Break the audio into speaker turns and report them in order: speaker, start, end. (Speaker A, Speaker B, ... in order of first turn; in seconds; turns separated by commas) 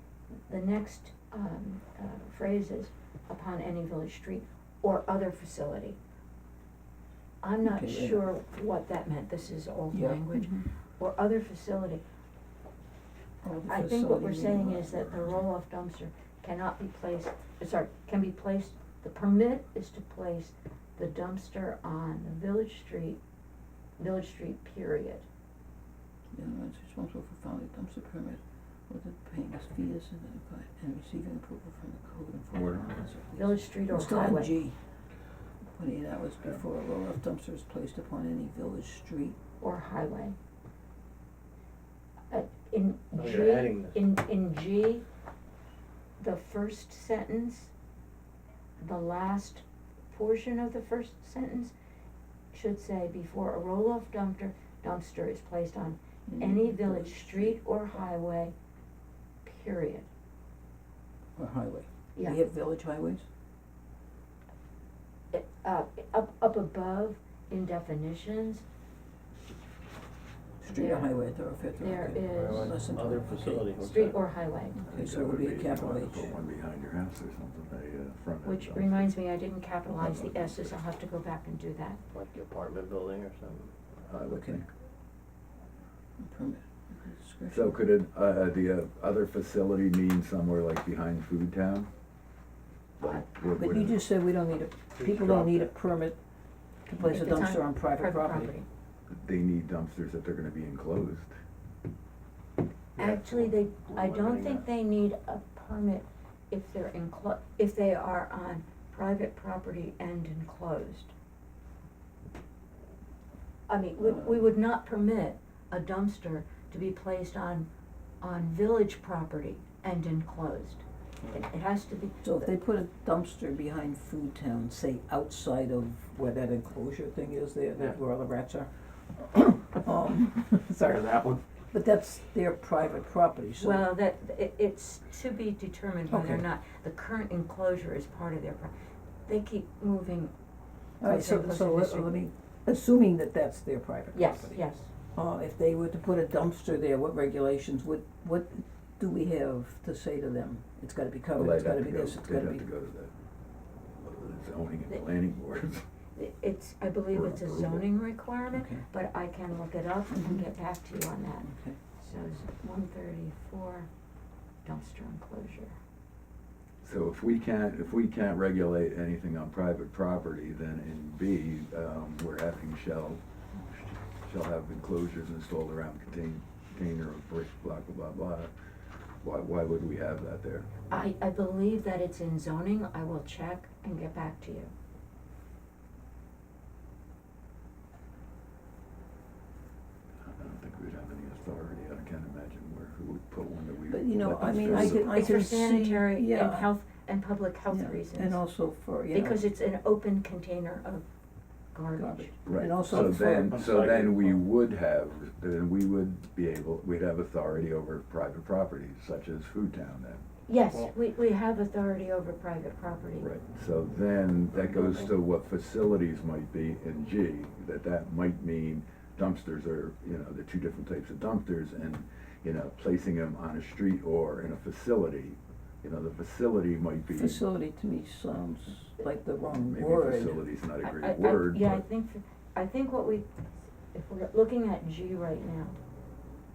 Speaker A: 0.3-6.0, Speaker A: 7.4-12.0, Speaker B: 7.6-8.3, Speaker B: 9.9-10.7, Speaker B: 13.4-15.5, Speaker A: 13.7-23.2, Speaker A: 24.0-25.3, Speaker B: 26.3-34.8, Speaker C: 32.5-33.0, Speaker A: 33.4-34.6, Speaker B: 35.7-39.4, Speaker A: 39.6-40.4, Speaker A: 42.3-45.0, Speaker D: 43.1-44.0, Speaker A: 46.2-47.7, Speaker A: 48.8-51.7, Speaker A: 52.5-58.5, Speaker B: 56.3-57.6, Speaker A: 59.4-60.1, Speaker B: 61.4-63.2, Speaker A: 65.3-68.6, Speaker B: 70.6-73.7, Speaker A: 70.7-71.1, Speaker A: 71.8-72.7, Speaker D: 72.3-74.2, Speaker A: 73.8-74.8, Speaker B: 74.8-76.3, Speaker C: 74.9-79.1, Speaker A: 78.4-82.0, Speaker C: 80.0-80.7, Speaker D: 82.1-83.7, Speaker C: 84.1-84.7, Speaker B: 84.3-84.6, Speaker B: 86.2-87.8, Speaker C: 87.5-91.9, Speaker C: 93.0-94.0, Speaker B: 93.5-96.2, Speaker D: 95.0-95.7, Speaker B: 96.9-98.5, Speaker A: 97.0-98.7, Speaker C: 99.1-101.3, Speaker D: 103.0-104.7, Speaker A: 103.0-111.1, Speaker A: 113.7-117.7, Speaker B: 114.0-114.4, Speaker A: 118.2-122.5, Speaker B: 122.2-130.8, Speaker D: 130.8-131.4, Speaker B: 131.6-133.8, Speaker A: 133.6-138.7, Speaker B: 136.1-136.4, Speaker A: 139.3-140.3, Speaker B: 141.0-144.6, Speaker A: 141.0-142.1, Speaker A: 144.1-144.9, Speaker B: 145.2-152.7, Speaker C: 151.4-153.1, Speaker C: 154.0-155.8, Speaker A: 156.2-163.9, Speaker C: 157.1-157.9, Speaker B: 158.5-158.8, Speaker B: 160.1-160.4, Speaker B: 161.4-161.8, Speaker A: 164.7-165.8, Speaker C: 166.8-173.2, Speaker C: 173.8-178.5, Speaker C: 179.2-180.7, Speaker A: 180.9-184.7, Speaker C: 190.2-195.1, Speaker B: 193.9-196.7, Speaker A: 194.7-198.4, Speaker B: 197.7-199.4, Speaker A: 199.1-201.0, Speaker A: 201.7-202.3, Speaker B: 202.0-203.6, Speaker C: 202.5-210.2, Speaker D: 202.9-204.4, Speaker A: 210.5-213.3, Speaker C: 213.2-227.4, Speaker D: 214.6-215.1, Speaker B: 227.1-230.4, Speaker C: 229.5-231.8, Speaker A: 230.8-233.3, Speaker A: 233.9-235.8